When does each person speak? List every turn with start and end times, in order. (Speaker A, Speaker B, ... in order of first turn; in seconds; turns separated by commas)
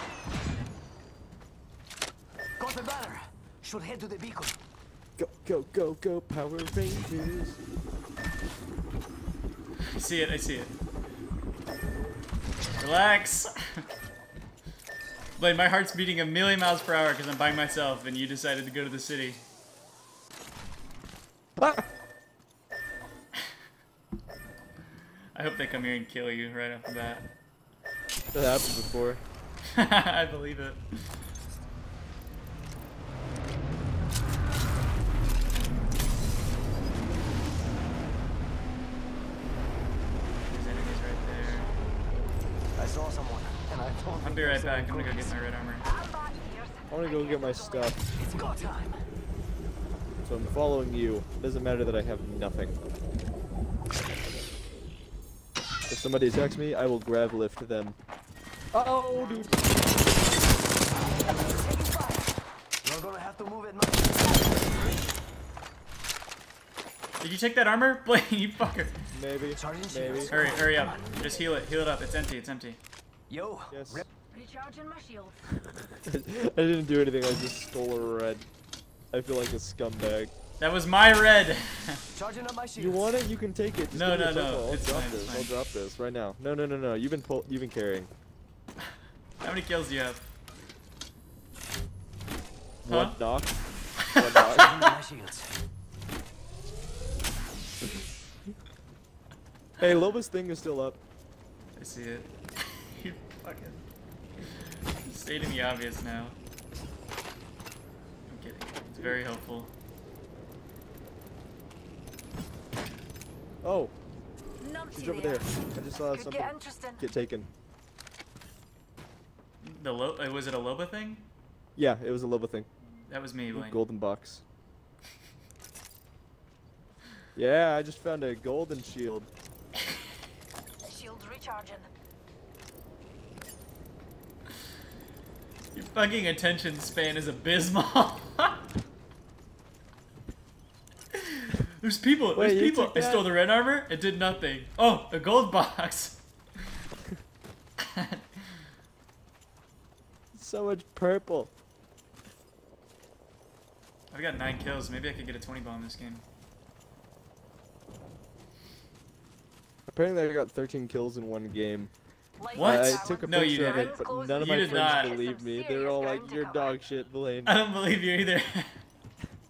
Speaker A: 2.6-4.6, Speaker B: 5.2-7.6, Speaker C: 9.8-10.7, Speaker C: 12.8-13.8, Speaker C: 15.4-19.4, Speaker B: 21.6-21.9, Speaker C: 25.4-27.3, Speaker B: 28.3-29.2, Speaker C: 29.7-30.8, Speaker C: 40.5-41.7, Speaker A: 42.8-45.4, Speaker C: 44.2-45.9, Speaker D: 45.8-48.0, Speaker B: 46.9-48.0, Speaker A: 48.2-49.0, Speaker B: 50.2-52.8, Speaker B: 55.9-58.0, Speaker B: 58.7-59.6, Speaker D: 59.2-59.4, Speaker A: 61.5-62.3, Speaker A: 62.8-65.0, Speaker C: 67.2-68.9, Speaker B: 69.1-70.4, Speaker A: 69.5-71.1, Speaker C: 70.3-72.8, Speaker A: 73.3-74.1, Speaker B: 73.7-74.1, Speaker D: 74.3-75.4, Speaker B: 75.9-78.5, Speaker B: 79.1-80.3, Speaker C: 80.6-82.0, Speaker A: 82.2-83.1, Speaker B: 82.8-88.1, Speaker C: 83.9-85.5, Speaker C: 89.4-90.2, Speaker B: 92.8-93.5, Speaker C: 92.9-93.2, Speaker C: 94.0-94.8, Speaker B: 94.1-94.8, Speaker A: 94.5-95.5, Speaker B: 99.8-101.0, Speaker C: 101.8-103.8, Speaker C: 104.4-106.4, Speaker C: 108.3-109.7, Speaker B: 109.0-109.2, Speaker B: 113.6-113.9, Speaker D: 114.6-117.0, Speaker B: 114.9-117.5, Speaker C: 119.6-121.2, Speaker B: 121.8-122.7, Speaker C: 123.0-123.8, Speaker B: 123.5-124.4, Speaker B: 127.3-129.3, Speaker D: 130.8-131.9, Speaker C: 135.7-138.6, Speaker C: 141.1-146.2, Speaker B: 142.3-143.4, Speaker C: 147.8-148.4, Speaker B: 150.3-151.5, Speaker C: 154.1-156.2, Speaker B: 159.9-161.9, Speaker D: 162.4-166.8, Speaker B: 162.5-167.6, Speaker C: 162.6-165.2, Speaker C: 167.4-168.8